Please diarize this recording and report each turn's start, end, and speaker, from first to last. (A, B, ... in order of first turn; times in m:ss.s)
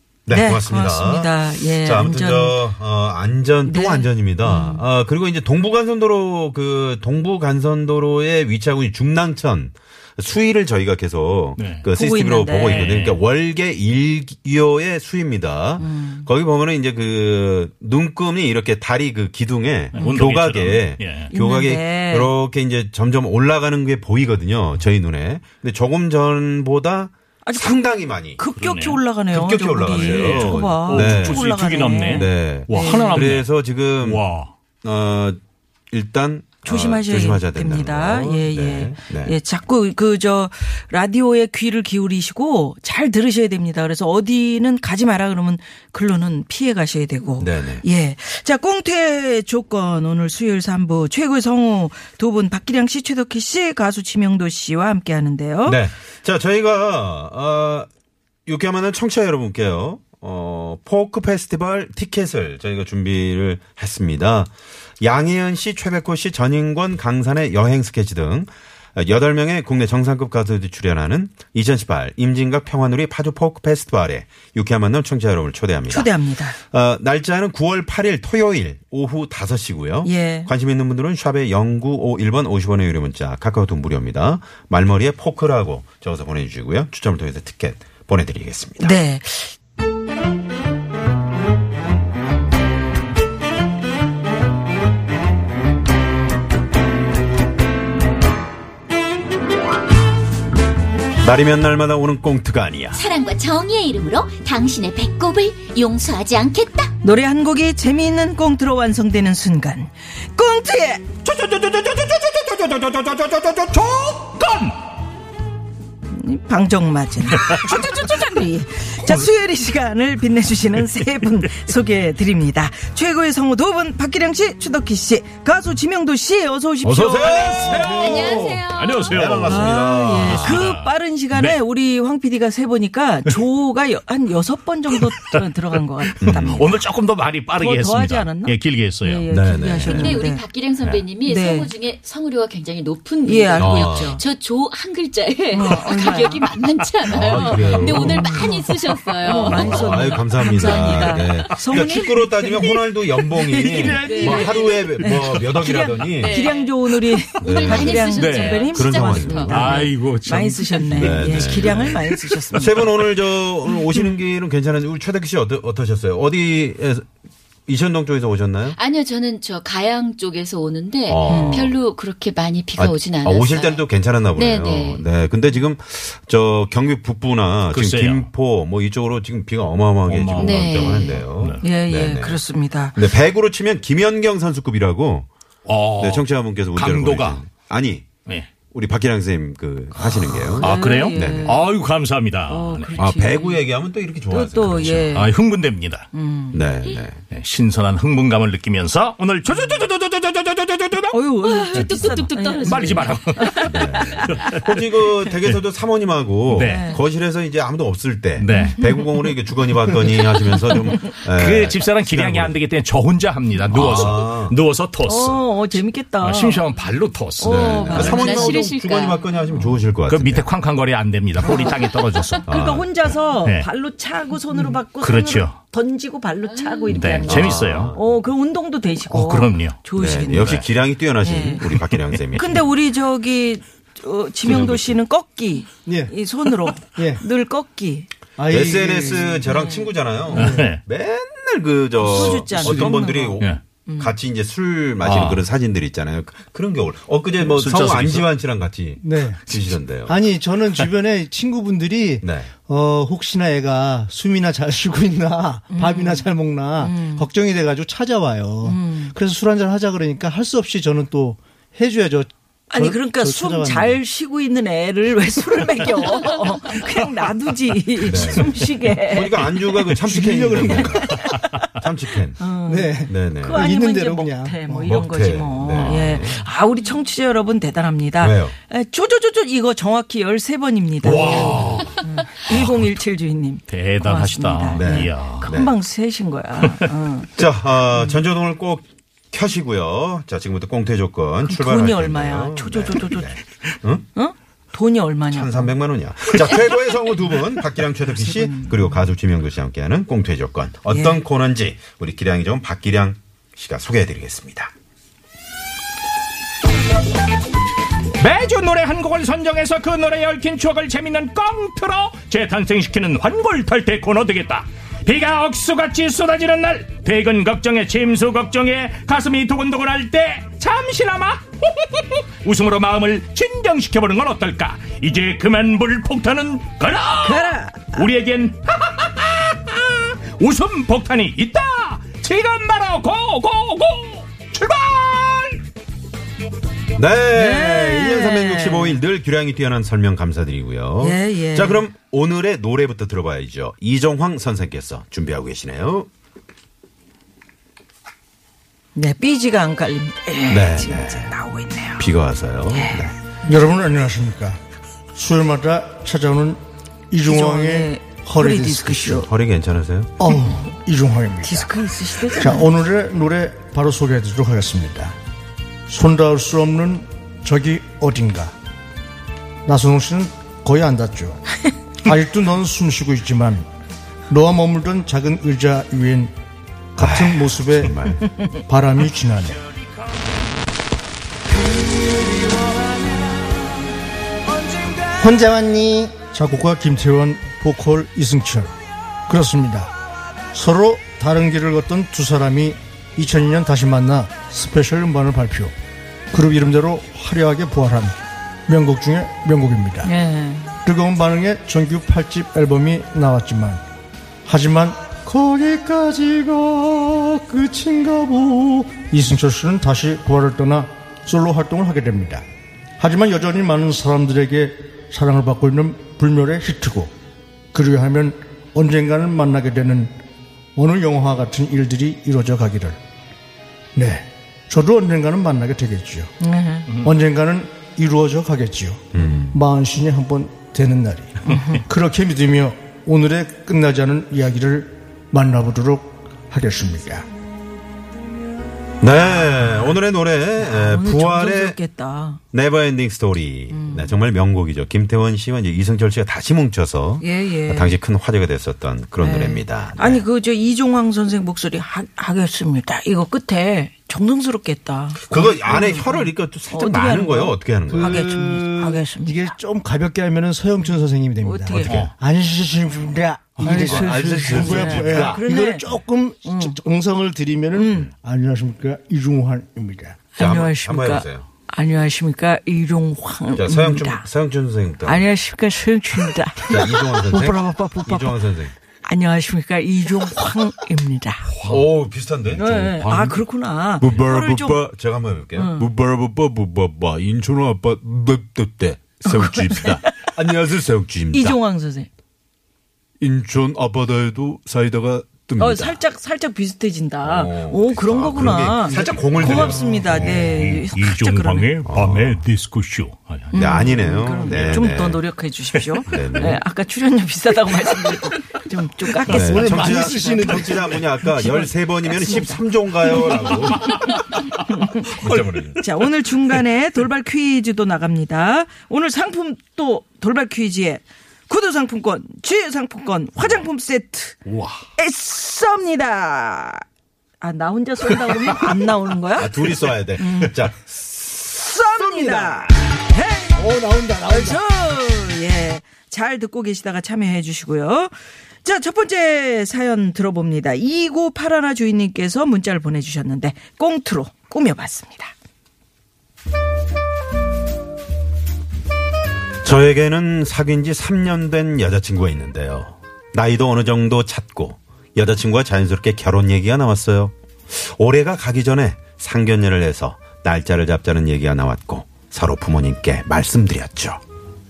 0:00.3-0:28.4 A
0:00.3-0:02.6 B
0:03.7-0:04.8 B
0:11.6-0:11.9 C
0:11.9-0:12.9 B
0:12.6-0:13.2 C
0:15.8-0:16.3 B
0:19.9-0:21.3 C
0:20.0-0:20.2 B
0:21.3-0:22.3 B
0:27.4-0:27.8 B
0:28.4-0:33.3 B
0:28.6-0:29.0 C
0:29.3-0:31.4 A
0:29.8-0:34.5 C
0:32.1-0:34.2 A
0:34.8-0:35.4 A
0:35.9-0:39.4 A
0:36.6-0:55.8 B
0:47.4-0:47.8 A
0:55.7-0:57.9 A
0:58.4-1:16.1 A
1:15.9-1:16.6 B
1:16.7-1:28.9 A
1:20.0-1:20.5 B
1:28.8-1:29.5 B
1:41.2-1:43.0 A
1:42.9-1:46.9 D
1:47.0-1:51.1 B
1:51.2-1:54.8 C
1:56.1-2:07.8 B
1:57.4-1:58.0 C
2:06.8-2:10.7 A
2:07.2-2:11.6 C
2:07.7-2:08.5 E
2:07.8-2:09.3 D
2:09.4-2:16.8 B
2:15.0-2:15.4 C
2:16.2-2:16.7 A
2:16.3-2:19.3 C
2:17.6-2:20.4 B
2:19.3-2:20.2 A
2:19.9-2:31.6 D
2:21.2-2:21.7 B
2:23.2-2:24.2 B
2:23.6-2:24.1 A
2:25.5-2:26.4 B
2:27.1-2:28.5 A
2:27.4-2:28.6 B
2:28.0-2:28.4 C
2:29.2-2:32.8 B
2:29.3-2:36.5 A
2:33.4-2:42.9 B
2:33.5-2:35.4 C
2:34.0-2:34.9 D
2:36.1-2:36.7 D
2:37.0-2:37.4 C
2:37.4-2:39.6 D
2:37.4-2:39.8 A
2:38.0-2:38.7 C
2:39.5-2:42.8 C
2:40.9-2:42.0 A
2:42.6-2:47.1 A
2:47.7-2:48.8 A
2:48.8-2:55.0 D
2:51.1-2:51.7 A
2:51.3-2:51.7 B
2:52.8-3:02.4 A
2:57.7-2:58.3 C
3:00.0-3:01.7 C
3:00.4-3:01.2 D
3:01.6-3:03.0 B
3:03.0-3:05.3 A
3:05.6-3:07.4 C
3:06.0-3:08.1 A
3:08.2-3:08.5 C
3:08.7-3:11.6 A
3:10.1-3:13.0 C
3:10.6-3:11.7 B
3:12.5-3:13.6 B
3:13.0-3:15.2 A
3:14.3-3:15.3 B
3:14.9-3:16.1 C
3:16.1-3:16.6 B
3:16.5-3:17.2 A
3:17.3-3:21.2 C
3:21.1-3:24.5 B
3:21.4-3:23.6 D
3:21.7-3:23.7 C
3:23.6-3:32.6 A
3:24.3-3:24.8 C
3:26.5-3:26.9 C
3:26.6-3:27.0 B
3:28.4-3:28.9 C
3:31.1-3:35.5 C
3:33.7-3:34.6 A
3:35.0-3:36.7 B
3:36.2-3:38.5 C
3:37.4-3:38.6 B
3:37.4-3:40.5 A
3:37.9-3:39.5 D
3:40.1-3:42.4 C
3:41.4-3:41.8 B
3:42.4-3:43.1 A
3:42.5-3:50.6 B
3:43.4-3:43.7 C
3:44.6-3:45.6 C
3:46.9-3:48.0 C
3:47.2-3:48.0 A
3:49.1-3:49.8 C
3:50.0-3:52.6 A
3:50.4-3:50.6 C
3:51.2-3:51.6 B
3:51.7-3:52.2 C
3:52.3-3:58.1 B
3:54.4-3:55.0 A
3:55.9-3:56.1 E
3:56.9-3:57.2 E
3:58.4-3:59.5 E
3:58.5-4:10.1 A
3:59.5-3:59.9 B
4:00.3-4:00.8 C
4:00.3-4:00.7 E
4:02.0-4:04.1 B
4:02.3-4:03.6 C
4:05.0-4:05.4 C
4:07.4-4:08.3 C
4:09.0-4:09.5 E
4:10.1-4:24.0 E
4:12.2-4:12.5 A
4:15.7-4:16.3 B
4:16.8-4:17.3 B
4:18.6-4:19.1 B
4:22.7-4:29.4 B
4:28.0-4:32.4 A
4:29.9-4:31.2 E
4:31.1-4:31.4 B
4:32.4-4:47.3 B
4:32.6-4:34.9 E
4:33.1-4:33.6 A
4:34.9-4:36.4 A
4:38.2-4:38.6 A
4:41.0-4:42.9 C
4:43.7-4:45.5 C
4:44.8-4:45.7 A
4:47.4-4:54.0 A
4:51.4-4:53.3 B
4:54.1-4:55.7 B
4:55.3-5:04.7 A
4:58.2-4:58.8 B
5:00.9-5:01.2 B
5:08.2-5:35.6 C
5:27.2-5:28.1 B
5:37.0-5:46.1 A
5:37.3-5:39.0 B
5:41.0-5:41.8 B
5:48.9-5:52.1 B
5:50.5-5:51.3 A
5:52.0-5:53.1 A
5:52.7-5:53.1 B
5:53.4-5:54.6 E
5:55.1-5:59.3 E
5:57.2-5:59.3 B
5:59.2-6:00.1 A
6:00.2-6:05.2 E
6:00.3-6:00.7 B
6:01.4-6:02.7 B
6:05.9-6:08.6 E
6:09.6-6:11.4 E
6:12.0-6:13.7 E
6:14.3-6:16.3 E
6:17.0-6:19.6 E
6:17.0-6:18.3 A
6:25.1-6:28.7 E
6:29.3-6:29.9 E
6:30.5-6:35.7 E
6:36.3-6:38.1 E
6:38.7-6:40.1 E
6:40.0-6:40.8 B
6:40.8-6:43.8 E
6:44.4-6:52.4 E
6:53.0-6:57.1 E
6:57.7-7:00.1 E
7:00.8-7:03.0 E
7:03.9-7:06.3 E
7:06.4-7:06.9 B
7:07.0-7:17.2 E
7:09.1-7:09.6 A
7:11.5-7:11.8 B
7:19.0-7:21.8 A
7:20.6-7:22.4 B
7:22.5-7:30.2 A
7:23.7-7:24.2 B
7:27.2-7:28.0 B
7:29.2-7:39.5 B
7:35.2-7:38.3 A
7:37.9-7:50.3 E
7:40.8-7:41.9 B
7:41.8-7:42.1 C
7:41.8-7:42.1 A
7:43.6-7:45.4 C
7:43.6-7:45.9 B
7:46.4-7:46.8 B
7:47.7-7:48.1 B
7:50.4-7:54.2 B
7:50.4-7:51.5 A
7:53.5-7:55.2 A
7:55.0-7:58.4 B
7:56.6-7:58.7 A
7:59.0-8:01.5 B
8:01.6-8:03.4 A
8:02.6-8:04.8 B
8:04.0-8:11.6 A
8:05.6-8:05.9 B
8:09.2-8:10.3 B
8:11.3-8:12.1 B
8:13.2-8:16.0 A
8:15.6-8:21.8 B
8:17.2-8:20.4 A
8:20.1-8:24.7 C
8:21.8-8:22.4 A
8:23.5-8:30.4 B
8:23.5-8:25.2 A
8:26.1-8:26.6 A
8:29.2-8:34.0 A
8:29.3-8:31.0 E
8:29.5-8:30.4 C
8:31.4-8:32.6 B
8:33.9-8:34.4 C
8:34.7-8:35.2 B
8:35.2-8:35.8 A
8:35.2-8:35.8 C
8:35.8-8:44.4 B
8:44.5-8:44.8 C
8:45.0-8:46.8 B
8:47.4-8:49.5 B
8:49.4-8:52.7 A
8:50.2-8:50.5 B
8:51.5-8:53.6 B
8:53.5-8:54.6 E
8:54.2-8:58.1 B
8:58.6-9:05.3 B
9:09.6-9:24.2 A